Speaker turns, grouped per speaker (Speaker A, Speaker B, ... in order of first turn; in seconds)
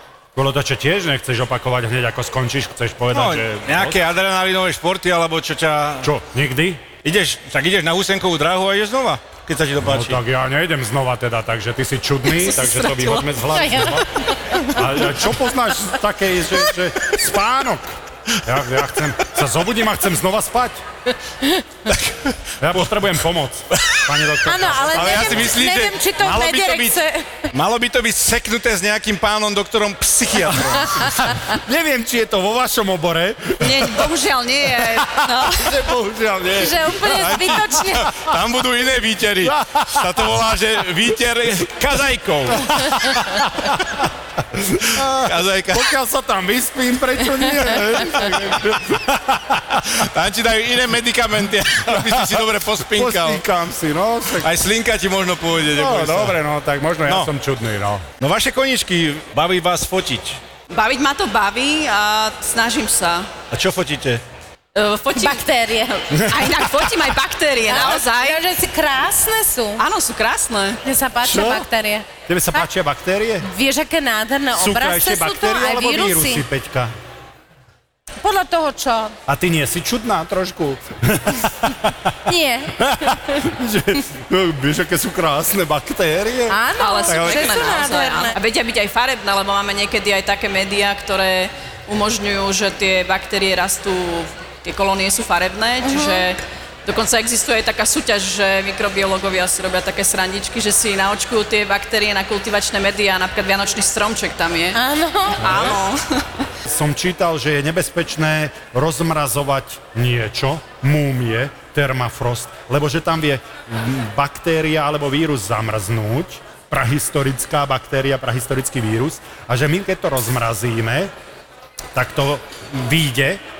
Speaker A: 0.3-4.0, 6.0-6.9, 9.8-14.1, 14.7-17.9, 18.4-20.8, 22.6-25.6, 26.2-26.9, 30.7-33.9, 35.0-37.6, 39.4-40.3, 41.8-43.7, 44.9-49.8, 51.9-54.5, 55.7-58.0, 66.4-66.7, 71.2-71.7, 72.3-73.5, 74.5-76.9, 79.3-82.1, 82.8-87.6, 106.6-121.1, 121.9-123.4
Speaker B: 3.1-6.1, 7.0-10.2, 21.9-22.3, 24.9-26.8, 27.5-31.2, 36.5-43.1, 44.8-45.9, 48.1-48.6, 49.9-53.4, 54.4-56.4, 58.2-60.4, 63.5-64.2
Speaker C: 12.3-13.3, 33.6-35.8, 60.7-63.3, 64.7-65.4, 66.1-68.4, 69.8-70.8, 86.8-104.8, 105.4-106.4
Speaker D: 13.5-14.8, 24.4-27.5, 36.6-38.1, 65.2-66.2, 67.7-69.8, 70.8-72.6, 73.4-76.4, 78.2-79.1, 82.2-82.8, 86.5-88.3, 95.8-96.2, 104.7-105.5